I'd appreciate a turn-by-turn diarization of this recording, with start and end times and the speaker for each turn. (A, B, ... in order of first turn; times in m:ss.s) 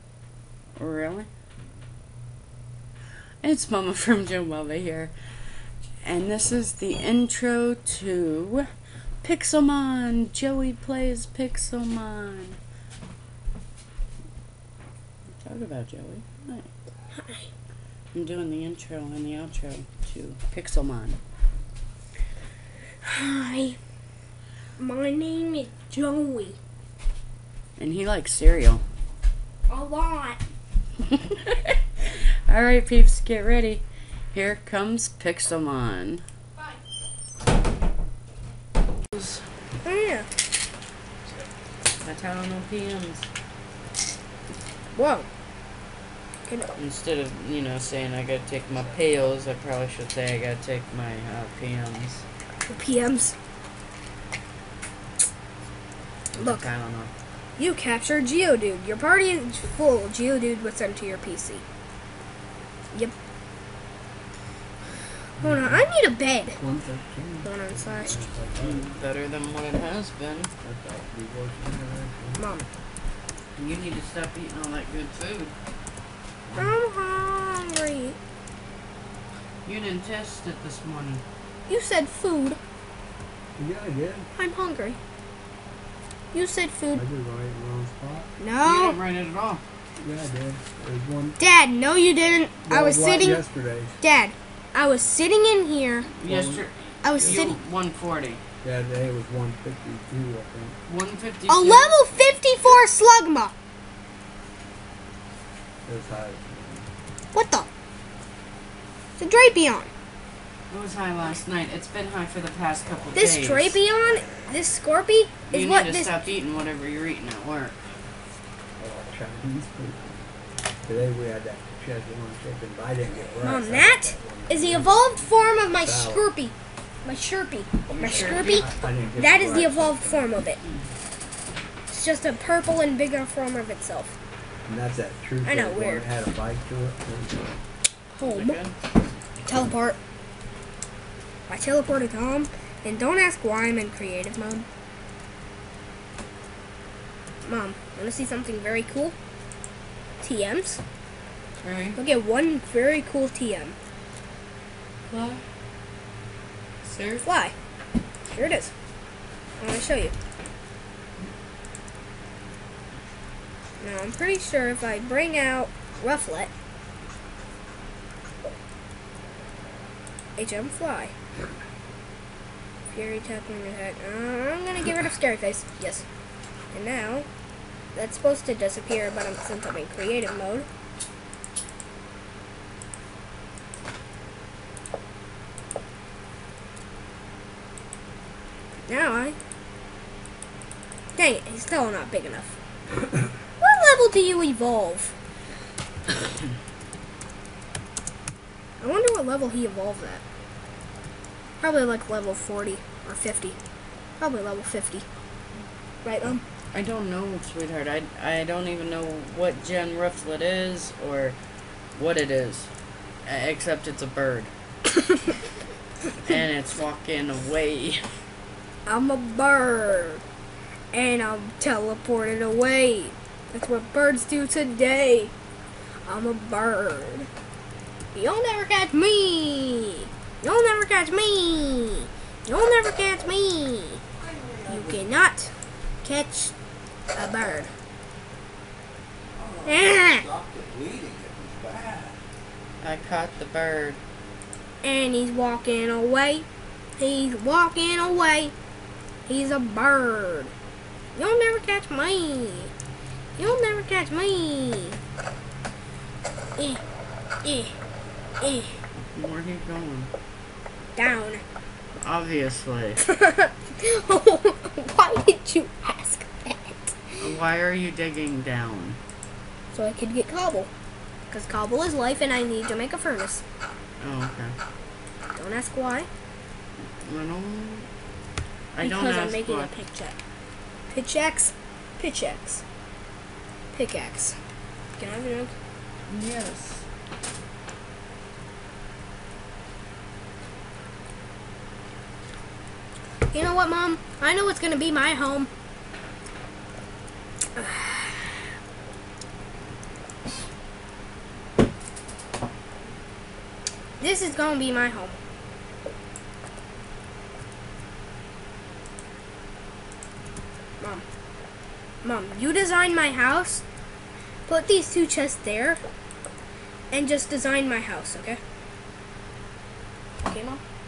0:00.8-0:01.3 A
0:03.4-0:05.1 A
0:06.0-0:08.7 A
0:09.2-0:12.6 A
0:15.4-0:16.7 A
0:17.2-0:17.5 B
0:18.1-0:21.2 A
0:23.0-0:23.8 B
0:24.8-0:26.6 B
0:27.8-0:28.8 A
0:29.7-0:30.4 B
0:31.1-0:36.2 A
0:39.1-0:39.4 A
0:39.8-0:40.3 B
0:42.0-0:43.3 A
0:45.0-0:45.3 B
0:46.8-0:52.2 A
0:52.7-0:53.4 B
0:56.4-0:57.1 A
0:56.4-0:56.7 B
0:57.6-1:01.6 B
1:05.4-1:05.9 C
1:05.4-1:06.6 B
1:06.5-1:08.9 C
1:07.4-1:08.2 B
1:08.6-1:10.5 A
1:10.6-1:12.6 C
1:12.4-1:12.7 B
1:13.6-1:15.5 A
1:16.5-1:16.8 C
1:16.6-1:18.2 B
1:19.6-1:21.2 A
1:21.7-1:22.6 B
1:23.6-1:24.3 C
1:24.4-1:25.0 B
1:26.3-1:27.0 B
1:26.9-1:28.3 C
1:28.4-1:29.0 B
1:28.6-1:29.6 A
1:30.0-1:31.4 C
1:31.4-1:33.4 B
1:32.7-1:34.0 C
1:34.0-1:36.1 B
1:36.2-1:38.4 A
1:36.2-1:37.6 C
1:37.0-1:37.6 B
1:38.6-1:40.8 C
1:40.9-1:42.2 A
1:41.5-1:43.5 B
1:45.8-1:46.9 C
1:47.3-1:47.7 B
1:49.2-1:49.9 B
1:50.7-1:53.8 A
1:53.1-1:56.2 B
1:55.5-1:57.8 A
1:58.8-2:00.2 C
2:00.8-2:06.3 C
2:03.4-2:10.6 B
2:07.9-2:10.4 C
2:08.0-2:08.7 A
2:11.9-2:14.1 B
2:14.7-2:17.6 C
2:15.4-2:16.1 B
2:18.1-2:18.8 A
2:18.2-2:18.6 B
2:19.4-2:20.0 B
2:21.5-2:24.7 B
2:27.4-2:29.2 B
2:30.2-2:30.8 B
2:31.6-2:32.0 A
2:32.0-2:33.8 B
2:35.1-2:35.4 A
2:36.8-2:37.3 A
2:37.2-2:37.5 B
2:38.3-2:38.7 B
2:39.6-2:40.1 B
2:43.8-2:46.5 B
2:50.4-2:51.1 B
2:52.9-2:56.0 B
2:56.7-2:57.3 B
2:58.0-3:00.7 B
3:08.9-3:09.4 B
3:11.2-3:12.6 B
3:13.6-3:15.1 B
3:18.8-3:20.2 B
3:21.6-3:23.6 B
3:24.2-3:25.0 B
3:26.0-3:26.4 B
3:26.7-3:31.4 A
3:32.0-3:32.7 A
3:33.2-3:34.5 A
3:36.2-3:38.0 A
3:38.9-3:40.2 B
3:40.9-3:45.3 B
3:46.1-3:47.3 B
3:48.1-3:54.0 B
3:54.6-3:54.9 C
3:54.7-3:55.5 B
3:56.0-3:56.5 B
3:57.1-3:57.7 B
3:59.6-4:00.3 B
4:00.4-4:01.0 C
4:02.8-4:04.0 A
4:04.8-4:06.5 B
4:07.0-4:08.5 B
4:09.3-4:10.5 B
4:11.2-4:12.7 B
4:13.4-4:15.0 B
4:17.4-4:17.7 B
4:18.4-4:18.8 B
4:19.0-4:20.1 A
4:21.0-4:21.4 B
4:22.0-4:23.0 A
4:23.0-4:27.2 B
4:27.2-4:29.0 A
4:29.7-4:30.7 B
4:31.3-4:33.4 B
4:34.0-4:34.6 A
4:35.4-4:36.1 B
4:37.0-4:37.9 A
4:38.7-4:39.7 A
4:38.8-4:40.2 B
4:40.9-4:42.6 B
4:43.7-4:44.4 B
4:45.0-4:45.5 B
4:46.1-4:46.8 A
4:53.3-4:55.5 B
4:57.6-4:58.4 B
5:04.0-5:05.2 B
5:12.0-5:13.6 B
5:14.5-5:15.8 B
5:16.9-5:18.4 B
5:20.2-5:20.6 B